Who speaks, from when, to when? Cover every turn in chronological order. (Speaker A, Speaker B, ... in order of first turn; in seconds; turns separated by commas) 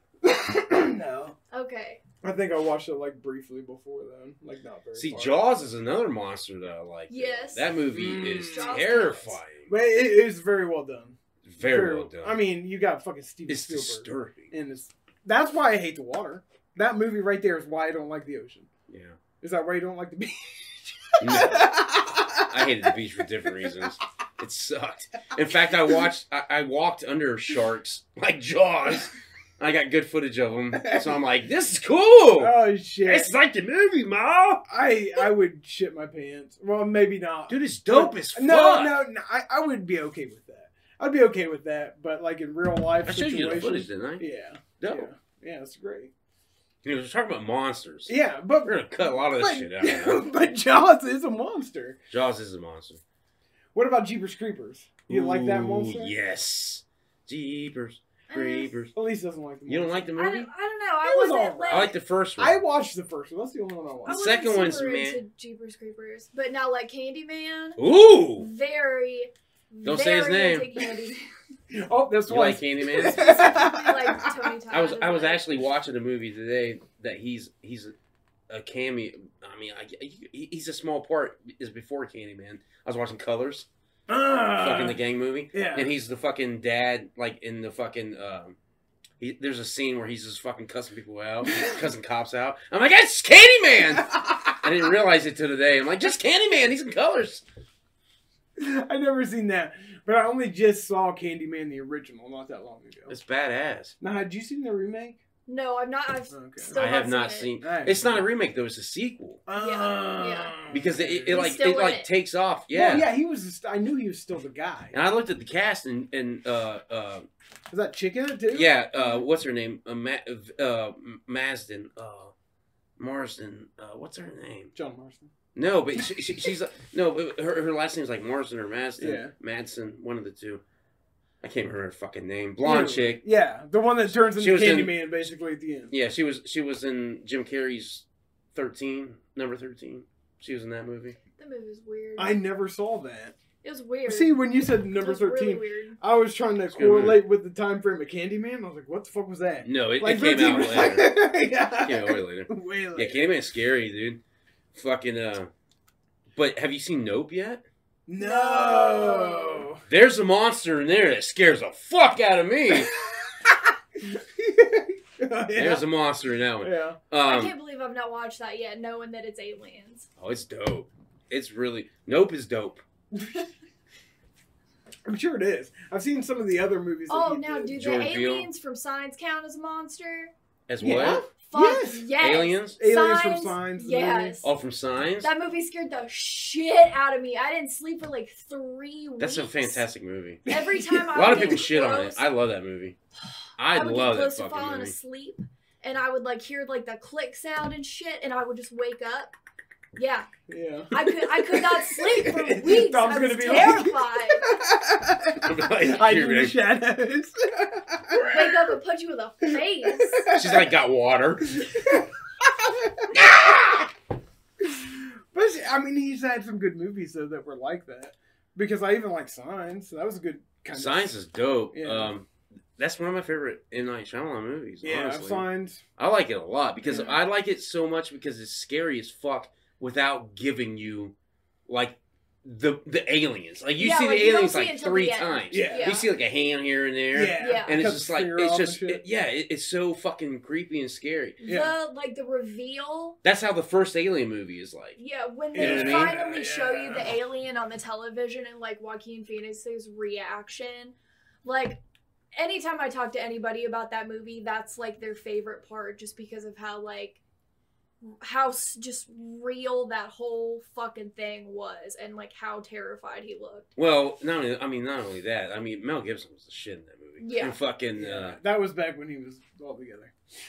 Speaker A: 0.2-1.4, Speaker B: 1.5-2.0, Speaker A: 2.2-5.4, Speaker C: 5.0-9.7, Speaker B: 7.1-7.7, Speaker A: 7.9-8.8, Speaker B: 8.4-9.4, Speaker A: 9.7-18.7, Speaker C: 11.4-12.4, Speaker C: 13.5-14.5, Speaker C: 18.9-19.2, Speaker A: 19.4-22.5, Speaker C: 21.2-34.6, Speaker A: 30.7-31.2, Speaker A: 32.4-33.3, Speaker A: 34.7-46.1, Speaker C: 37.5-39.0, Speaker C: 43.0-44.2, Speaker C: 44.8-45.1, Speaker C: 46.8-50.2, Speaker A: 48.1-48.8, Speaker A: 49.3-52.0, Speaker C: 52.1-53.0, Speaker A: 53.7-56.1, Speaker C: 55.1-58.9, Speaker B: 58.3-58.8, Speaker A: 58.9-60.1, Speaker C: 59.7-60.5, Speaker B: 60.1-61.9, Speaker A: 61.0-64.2, Speaker C: 61.7-62.6, Speaker B: 64.0-67.8, Speaker C: 64.1-65.2, Speaker C: 67.8-68.5, Speaker B: 68.4-71.2, Speaker C: 69.8-70.7, Speaker A: 71.7-74.5, Speaker C: 72.3-73.4, Speaker B: 73.0-75.5, Speaker C: 74.7-77.9, Speaker C: 78.5-83.7, Speaker A: 84.1-85.0, Speaker C: 84.5-88.5, Speaker A: 85.5-85.9, Speaker C: 89.2-97.4, Speaker A: 93.9-94.5, Speaker A: 98.6-103.1, Speaker C: 103.1-104.0, Speaker A: 104.0-105.2, Speaker B: 105.5-107.5, Speaker A: 106.3-106.8, Speaker C: 106.8-109.4, Speaker A: 107.6-108.2, Speaker A: 109.5-111.6, Speaker B: 109.6-110.6, Speaker C: 110.7-113.1, Speaker B: 111.3-112.1, Speaker A: 112.7-115.0, Speaker C: 114.9-117.3, Speaker A: 117.7-118.7, Speaker C: 118.5-122.3, Speaker B: 119.0-119.2, Speaker C: 123.0-124.7, Speaker A: 124.8-125.3, Speaker C: 125.5-130.6, Speaker A: 129.0-129.3, Speaker C: 131.4-133.2, Speaker A: 132.6-135.9, Speaker C: 134.4-135.0, Speaker C: 135.9-141.2, Speaker B: 141.4-142.4, Speaker A: 142.2-143.3, Speaker B: 143.6-146.0, Speaker A: 144.1-153.3, Speaker C: 146.7-147.2, Speaker C: 149.6-151.1, Speaker C: 151.8-154.2, Speaker C: 154.7-155.5, Speaker C: 156.3-157.6, Speaker A: 158.1-159.8, Speaker B: 158.2-159.7, Speaker C: 159.9-162.9, Speaker A: 162.7-165.9, Speaker C: 165.6-167.5, Speaker A: 166.6-167.0, Speaker B: 167.2-170.1, Speaker C: 170.2-172.8, Speaker A: 173.1-173.5, Speaker A: 175.1-177.8, Speaker B: 177.1-180.3, Speaker C: 177.7-178.5, Speaker C: 180.7-181.2, Speaker A: 180.8-182.1, Speaker B: 181.3-184.5, Speaker C: 182.2-182.8, Speaker A: 182.8-184.4, Speaker C: 184.4-185.3, Speaker B: 185.2-189.8, Speaker C: 189.2-190.4, Speaker A: 190.5-191.7, Speaker B: 190.5-192.2, Speaker C: 191.1-193.0, Speaker C: 193.6-194.9, Speaker B: 193.7-199.3, Speaker B: 200.0-200.3, Speaker A: 200.5-208.4, Speaker B: 200.9-204.5, Speaker C: 205.4-206.6, Speaker B: 208.3-210.3, Speaker A: 209.5-210.7, Speaker C: 210.3-211.8, Speaker A: 211.6-213.8, Speaker C: 213.1-213.8, Speaker A: 214.6-221.2, Speaker C: 220.7-222.3, Speaker A: 221.7-222.1, Speaker C: 222.8-225.5, Speaker A: 224.8-225.8, Speaker C: 226.0-231.1, Speaker A: 226.9-227.1, Speaker C: 231.7-241.4, Speaker B: 233.8-236.1, Speaker A: 235.5-235.9, Speaker A: 237.1-239.0, Speaker B: 237.4-237.8, Speaker B: 241.4-243.2, Speaker A: 241.4-241.7, Speaker C: 243.2-245.0, Speaker B: 245.0-251.8, Speaker A: 245.5-247.1, Speaker C: 245.5-246.1, Speaker B: 252.3-257.2, Speaker B: 258.0-263.7, Speaker C: 263.8-268.4, Speaker B: 267.2-267.6, Speaker A: 268.0-270.1